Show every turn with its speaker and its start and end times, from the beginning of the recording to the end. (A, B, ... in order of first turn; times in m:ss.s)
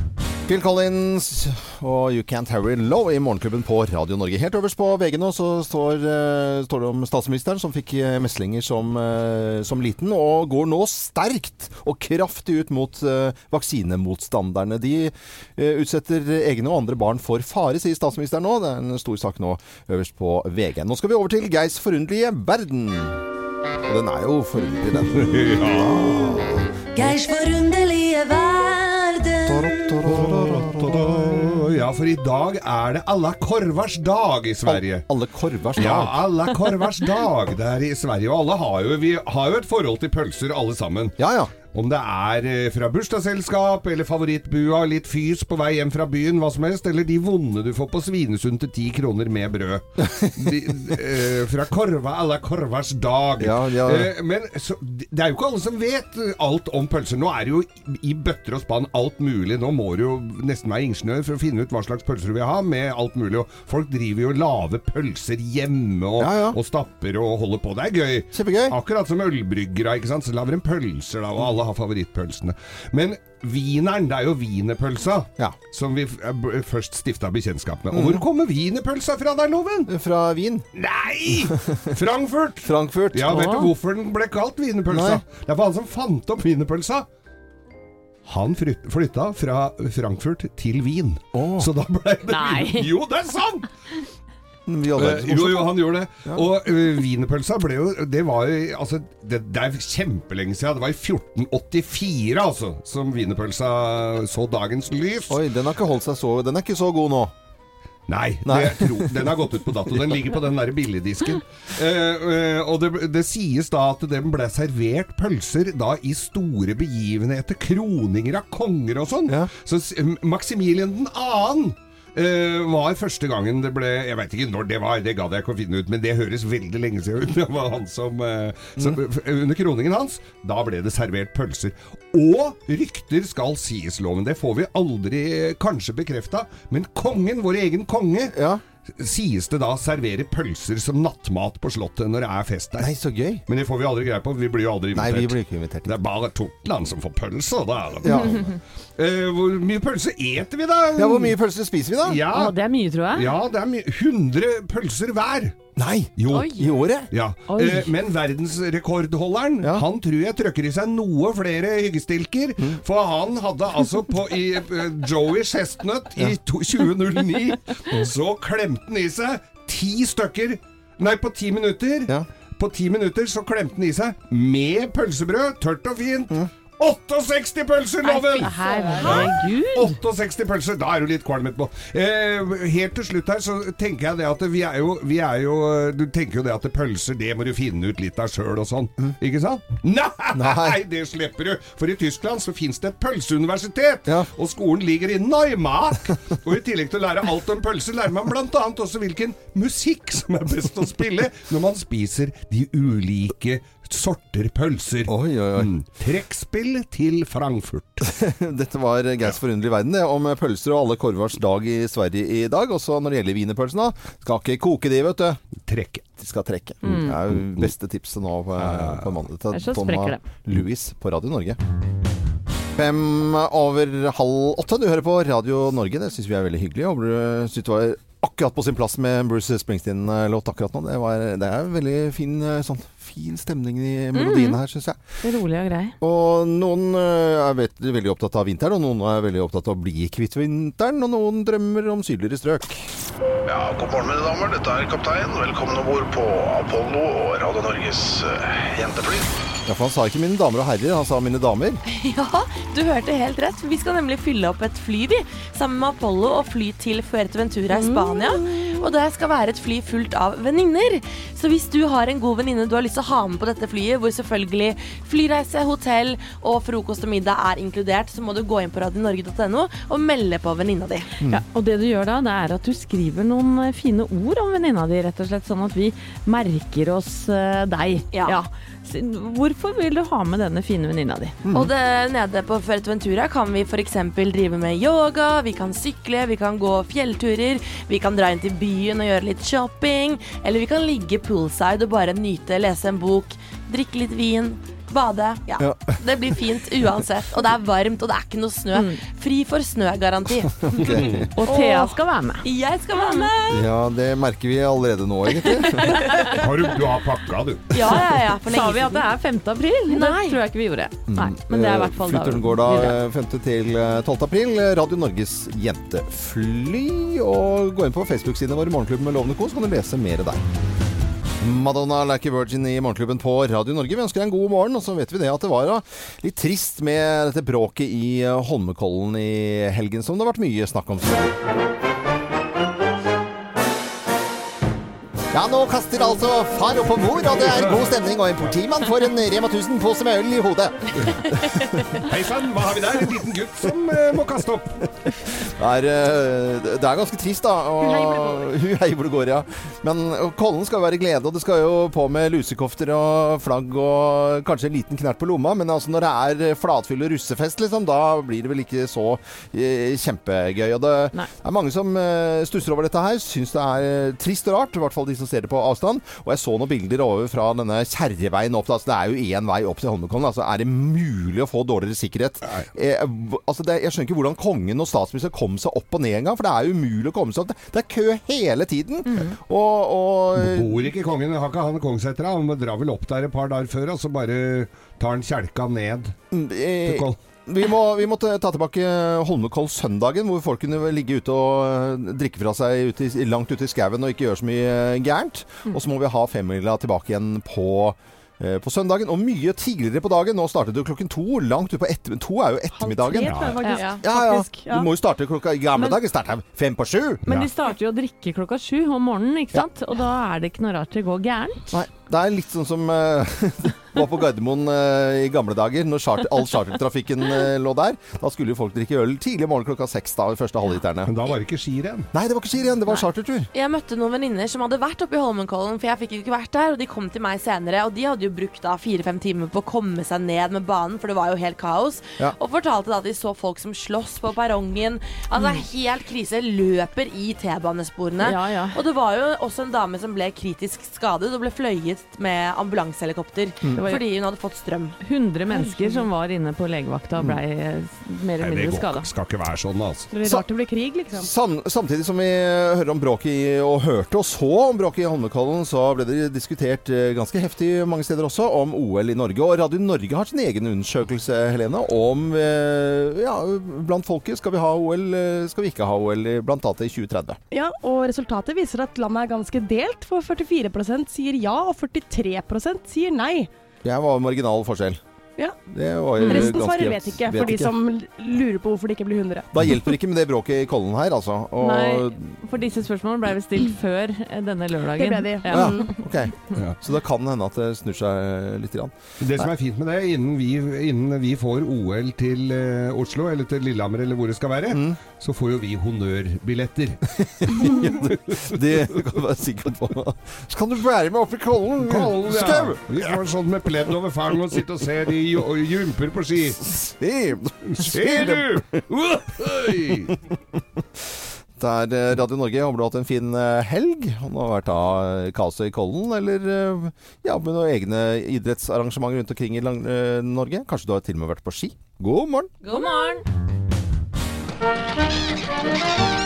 0:00.5-0:23.2 A
0:23.9-0:27.1 A
0:25.0-0:26.5 B
0:27.0-0:29.7 C
0:29.5-0:31.6 A
0:30.0-0:35.0 B
0:34.7-0:36.2 A
0:35.8-0:41.2 B
0:41.2-0:41.5 A
0:41.7-1:19.9 B
0:50.0-0:50.4 A
0:53.4-0:54.1 A
1:06.2-1:06.6 A
1:08.3-1:08.8 A
1:17.9-1:18.2 A
1:19.9-1:20.7 A
1:20.7-1:27.1 B
1:21.7-1:21.9 A
1:22.6-1:23.4 A
1:23.3-1:23.7 D
1:24.9-1:25.2 A
1:28.2-1:33.7 B
1:31.3-1:31.7 A
1:32.3-1:32.9 D
1:34.7-1:36.5 A
1:35.0-1:45.4 B
1:45.3-1:47.3 A
1:48.1-2:18.3 B
1:48.4-1:49.2 A
2:18.3-2:18.6 A
2:18.9-2:22.9 B
2:22.8-2:23.4 A
2:23.5-2:31.4 B
2:24.9-2:26.0 A
2:28.0-2:28.4 A
2:31.0-2:32.2 A
2:32.0-2:32.6 B
2:32.3-2:33.3 D
2:33.1-2:35.6 B
2:35.8-2:37.1 A
2:36.2-3:28.1 B
2:37.5-2:37.9 D
2:58.2-3:00.0 D
2:58.4-2:59.1 E
3:10.3-3:10.8 A
3:25.1-3:25.7 A
3:28.1-3:35.4 A
3:35.6-3:36.1 B
3:36.2-3:41.6 A
3:36.8-3:37.7 B
3:36.9-3:37.2 D
3:38.6-3:39.1 B
3:39.5-3:40.2 D
3:42.8-3:55.0 A
3:54.1-3:54.6 D
3:55.2-3:56.0 D
3:56.0-4:02.9 A
4:03.5-4:09.3 F
4:09.7-4:11.8 A
4:11.9-4:31.1 E
4:17.7-4:18.9 G
4:31.3-4:41.4 D
4:38.1-4:38.4 E
4:41.4-4:41.7 A
4:41.5-5:00.7 E
4:55.6-4:56.0 A
4:58.7-4:59.0 D
5:00.6-5:01.3 A
5:00.9-5:01.3 B
5:01.4-5:03.3 D
5:01.5-5:03.7 E
5:03.5-5:06.1 A
5:05.5-5:06.2 E
5:05.8-5:06.4 D
5:06.3-5:07.7 B
5:07.7-5:09.1 E
5:07.9-5:13.0 D
5:09.9-5:10.4 E
5:11.1-5:20.4 A
5:21.4-5:31.4 A
5:35.3-5:42.0 A
5:37.2-5:38.6 B
5:41.0-5:41.2 B
5:42.0-5:44.9 B
5:45.0-6:20.9 A
5:47.8-5:48.5 G
6:12.4-6:12.7 B
6:20.4-6:26.2 B
6:26.3-6:47.2 A
6:26.8-6:27.2 B
6:42.8-6:44.9 G
6:43.2-6:43.8 B
6:43.6-6:44.0 D
6:45.8-6:46.0 D
6:47.3-6:51.7 D
6:51.7-7:01.1 A
7:01.0-7:02.1 B
7:02.1-7:03.5 A
7:03.5-7:25.0 E
7:15.4-7:15.6 D
7:18.2-7:18.8 D
7:23.8-7:24.1 D
7:25.0-7:29.1 D
7:25.5-7:26.0 G
7:28.4-7:30.1 B
7:30.1-7:31.3 G
7:31.1-7:47.4 A
7:47.5-7:53.5 G
7:53.8-7:55.0 A
7:55.7-7:57.7 A
7:56.2-7:56.6 D
7:56.2-7:59.5 G
7:59.5-8:02.4 A
8:01.6-8:06.0 D
8:05.0-8:05.9 G
8:05.5-8:09.5 A
8:09.2-8:19.0 B
8:14.7-8:15.0 A
8:17.1-8:23.0 A
8:21.8-8:26.6 B
8:26.6-8:28.8 A
8:27.7-8:30.2 B
8:31.6-8:42.5 A
8:42.6-8:43.2 D
8:42.7-8:43.1 E